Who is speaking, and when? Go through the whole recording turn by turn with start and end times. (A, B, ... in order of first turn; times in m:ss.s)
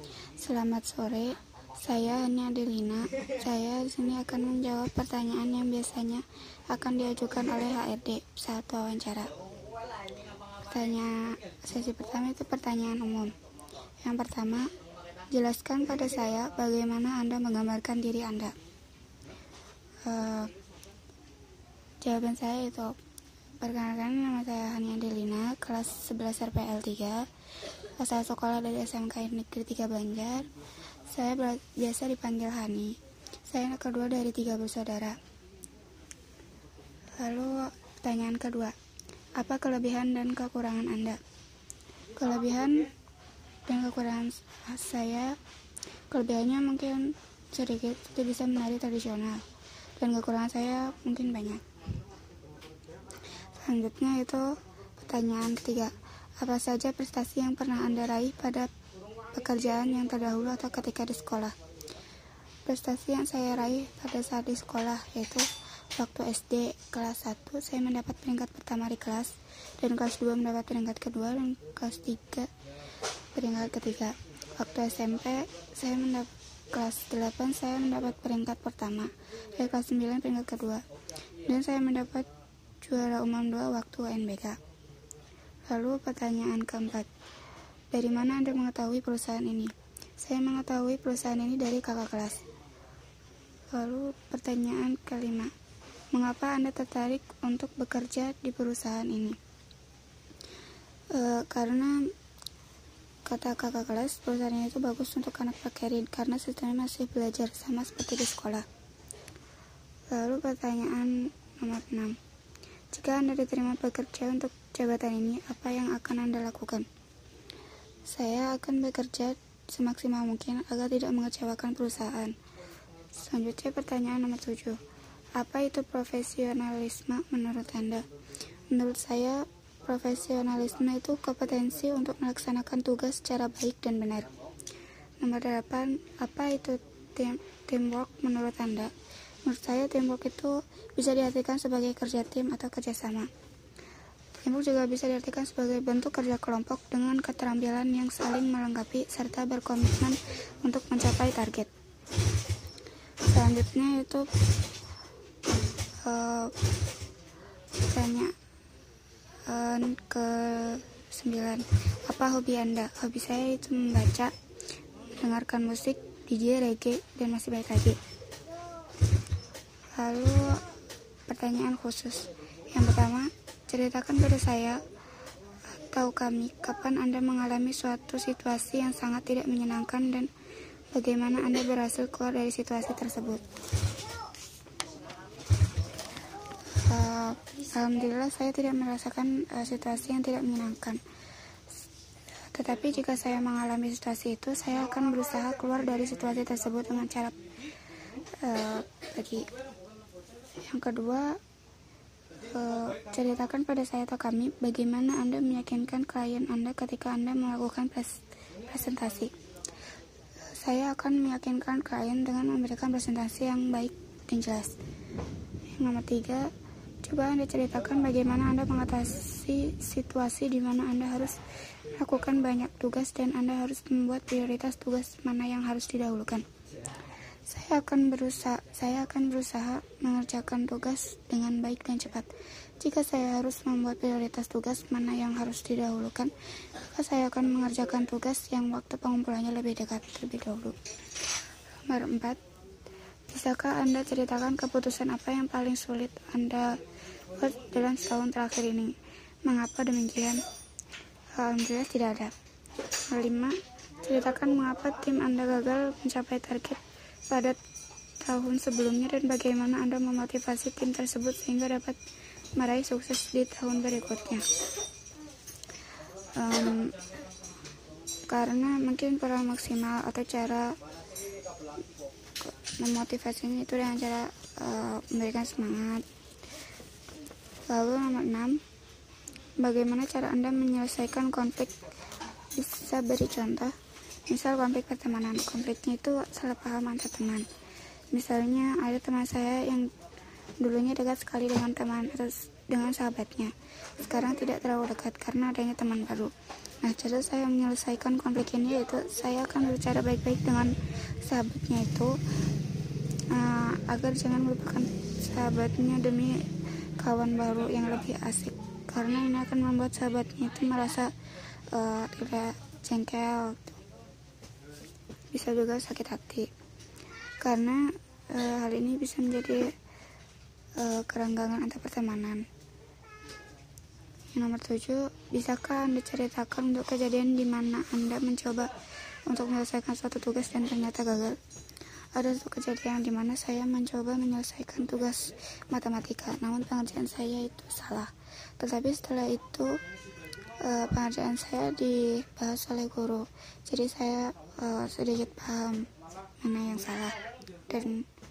0:00.4-0:09.4 A
0:10.7-0:13.4 A
0:14.0-0:14.7 A
0:15.3-0:18.6 A
0:20.0-0:20.6 A
0:22.0-0:23.0 A
0:23.6-0:27.3 A
0:28.0-0:30.5 A
0:31.1-0:35.2 A
0:37.2-0:38.8 A
0:39.4-0:41.2 A
0:42.2-0:42.9 A
0:43.6-0:45.4 A
0:46.1-0:49.5 A
0:50.0-0:51.6 A
0:53.5-0:58.7 A
0:59.3-1:01.6 A
1:02.6-1:12.5 A
1:13.3-1:20.8 A
1:21.4-1:22.3 A
1:22.8-1:24.6 A
1:25.7-1:27.1 A
1:27.9-1:32.5 A
1:33.7-1:35.5 A
1:36.1-1:39.4 A
1:41.1-1:42.1 A
1:43.2-1:48.7 A
1:50.1-1:52.2 A
1:52.9-1:56.9 A
1:58.0-2:02.4 A
2:03.1-2:04.8 A
2:05.4-2:08.1 A
2:08.7-2:14.3 A
2:15.2-2:23.3 A
2:24.3-2:31.7 A
2:33.2-2:34.3 A
2:36.0-2:36.6 A
2:37.8-2:38.4 A
2:39.4-2:44.3 A
2:45.1-2:48.0 A
2:50.0-2:50.7 A
2:51.3-2:54.8 A
2:55.7-3:00.3 A
3:00.9-3:03.4 A
3:06.7-3:11.0 A
3:12.5-3:17.5 A
3:18.4-3:19.5 A
3:20.6-3:21.4 A
3:22.4-3:29.4 A
3:30.5-3:34.8 A
3:35.7-3:46.5 A
3:47.5-4:00.8 A
4:01.8-4:02.4 A
4:03.3-4:06.8 A
4:07.3-4:10.4 A
4:11.4-4:12.3 A
4:13.0-4:17.6 A
4:18.2-4:22.0 A
4:22.5-4:24.5 A
4:26.3-4:27.0 A
4:28.3-4:30.8 A
4:32.4-4:36.1 A
4:37.7-4:38.6 A
4:39.6-4:41.8 A
4:42.5-4:47.5 A
4:48.1-4:49.9 A
4:50.6-5:02.2 A
5:03.3-5:11.1 A
5:11.7-5:13.8 A
5:15.3-5:16.5 A
5:17.4-5:19.8 A
5:20.8-5:22.5 A
5:24.3-5:28.7 A
5:29.2-5:31.4 A
5:32.1-5:39.8 A
5:40.6-5:48.1 A